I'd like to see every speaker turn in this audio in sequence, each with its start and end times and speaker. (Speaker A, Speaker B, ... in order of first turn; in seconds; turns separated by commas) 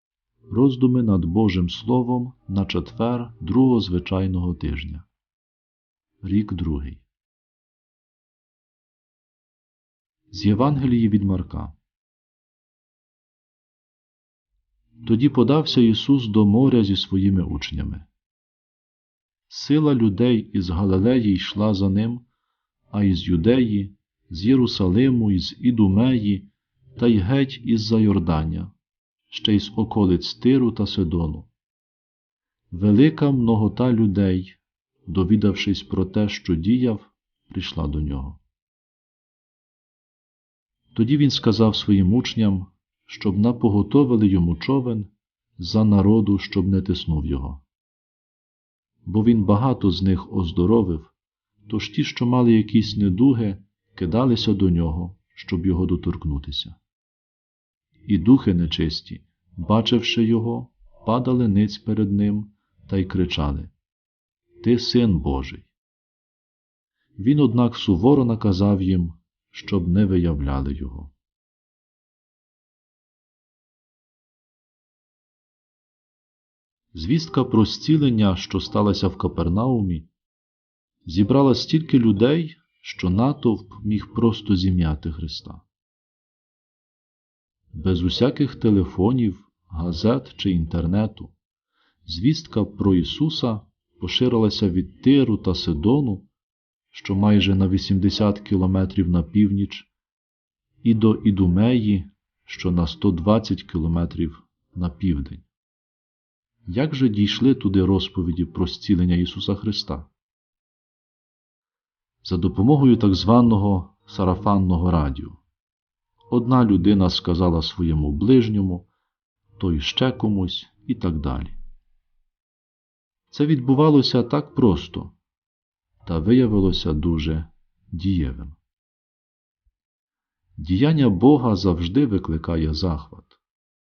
Speaker A: 0.5-5.0, Speaker A: 6.2-7.0, Speaker A: 10.3-11.8, Speaker A: 15.0-18.1, Speaker A: 19.5-22.2, Speaker A: 22.9-28.7, Speaker A: 29.3-31.5, Speaker A: 32.7-38.4, Speaker A: 40.9-47.6, Speaker A: 49.0-51.1, Speaker A: 51.7-56.8, Speaker A: 58.0-63.7, Speaker A: 64.6-65.7, Speaker A: 67.2-71.1, Speaker A: 76.9-80.1, Speaker A: 81.0-85.6, Speaker A: 87.7-91.3, Speaker A: 92.0-96.3, Speaker A: 96.9-99.9, Speaker A: 100.8-105.5, Speaker A: 106.7-110.1, Speaker A: 112.2-115.4, Speaker A: 116.3-118.9, Speaker A: 119.6-121.6, Speaker A: 123.3-125.1, Speaker A: 126.0-128.6, Speaker A: 130.6-133.4